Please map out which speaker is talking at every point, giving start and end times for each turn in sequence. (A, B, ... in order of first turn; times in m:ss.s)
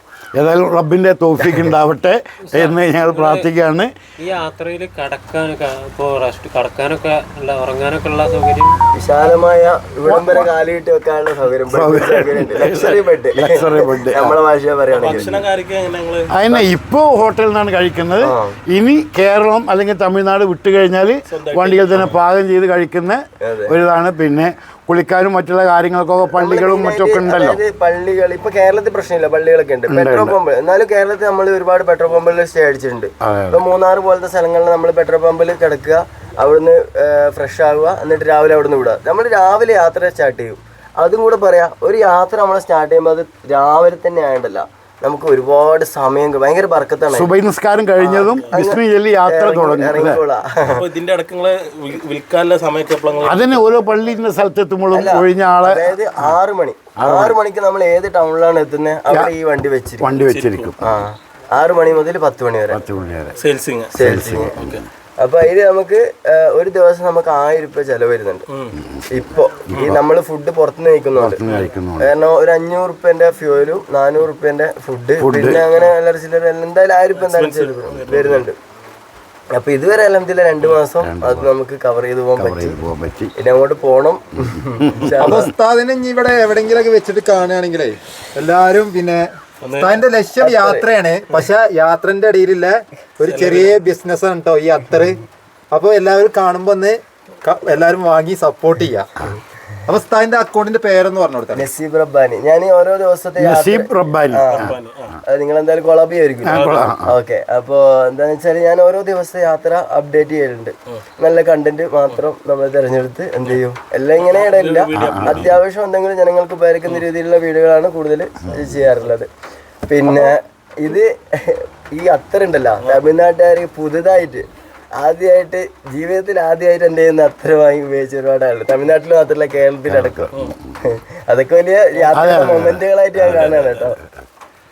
0:00.4-0:03.9 A
0:01.4-0:01.7 B
0:02.4-0:03.5 C
0:04.2-0:08.7 C
0:08.9-0:15.4 B
0:10.0-0:10.5 A
0:11.7-0:14.4 A
0:14.9-0:16.6 D
0:16.3-0:27.6 A
0:18.2-0:18.6 B
0:21.3-0:22.2 D
0:23.4-0:23.8 B
0:26.3-0:47.3 B
0:29.9-0:30.4 A
0:33.2-0:33.6 A
0:47.1-0:50.2 A
0:48.0-0:50.8 B
0:50.7-0:53.7 D
0:53.2-0:56.4 A
0:54.9-1:00.2 B
0:57.0-0:57.4 A
1:00.0-1:01.0 A
1:00.2-1:00.7 D
1:00.8-1:02.8 B
1:02.7-1:03.4 A
1:03.4-1:04.8 D
1:03.9-1:04.5 B
1:04.0-1:04.8 A
1:05.2-1:08.5 B
1:08.5-1:08.8 D
1:08.8-1:10.0 A
1:09.1-1:18.6 B
1:11.2-1:12.1 A
1:15.2-1:15.7 A
1:17.1-1:18.5 D
1:19.5-1:22.8 B
1:21.0-1:21.5 A
1:22.4-1:23.3 A
1:23.4-1:25.5 B
1:24.4-1:25.3 A
1:25.2-1:35.2 E
1:29.6-1:30.0 D
1:30.4-1:30.9 B
1:33.2-1:33.8 D
1:35.7-1:39.1 E
1:39.9-1:41.7 E
1:41.5-1:44.7 B
1:43.4-1:44.8 A
1:44.5-1:45.2 D
1:45.3-1:59.3 B
1:46.4-1:47.2 A
1:46.5-1:46.9 D
1:54.2-1:55.6 D
1:54.9-1:55.5 A
1:58.5-1:58.8 A
1:59.9-2:04.4 B
2:05.0-2:14.0 B
2:09.9-2:10.5 A
2:12.1-2:12.8 A